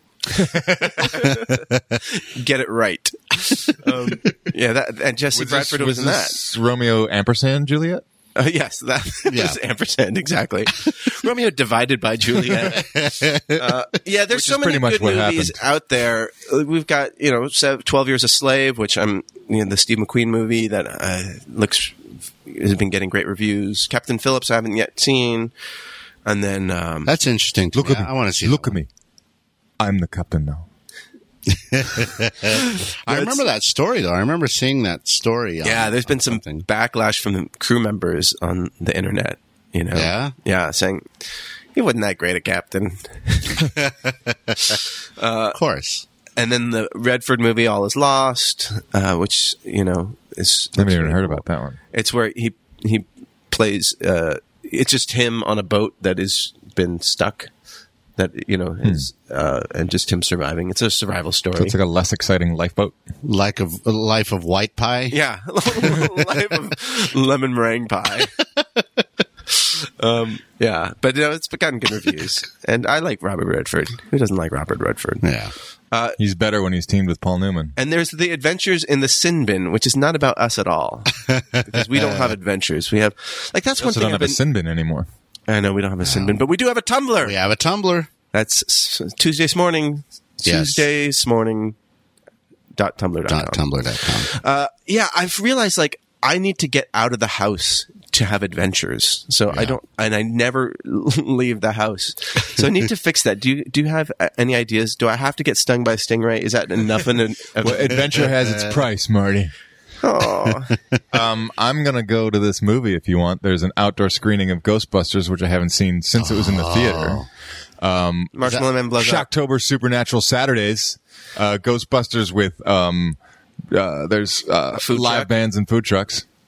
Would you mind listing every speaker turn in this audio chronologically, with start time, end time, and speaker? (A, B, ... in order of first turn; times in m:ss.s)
0:00.3-0:01.1 A
0:00.8-0:06.4 B
0:01.0-0:02.0 C
0:05.3-0:08.0 A
0:08.4-0:25.5 B
0:09.3-0:09.6 C
0:12.5-0:13.6 C
0:14.3-0:15.6 A
0:26.2-0:27.1 B
0:27.0-0:28.8 C
0:27.7-0:28.9 A
0:29.8-0:30.6 A
0:31.5-0:36.6 C
0:32.5-0:33.4 B
0:35.6-0:43.7 B
0:39.9-0:40.3 C
0:43.6-0:44.8 C
0:44.6-0:45.6 B
0:45.5-0:46.0 C
0:46.4-0:57.5 B
0:50.8-0:51.8 A
0:58.2-1:01.8 B
1:01.6-1:03.0 A
1:03.2-1:05.2 C
1:05.1-1:08.3 B
1:09.6-1:15.3 B
1:15.2-1:15.5 C
1:15.9-1:16.2 B
1:16.2-1:17.7 A
1:17.8-1:24.4 B
1:21.3-1:22.3 C
1:23.8-1:25.1 A
1:25.5-1:27.4 B
1:26.0-1:26.4 C
1:27.2-1:28.1 C
1:28.3-1:31.8 B
1:30.4-1:30.8 C
1:32.8-1:48.2 B
1:33.3-1:34.3 C
1:39.5-1:39.8 C
1:47.6-1:49.5 A
1:50.0-1:50.8 B
1:51.1-1:57.2 A
1:56.2-1:57.3 C
1:57.8-1:58.4 A
1:58.3-1:59.3 B
1:58.9-2:03.2 A
2:03.7-2:06.2 A
2:04.7-2:05.3 B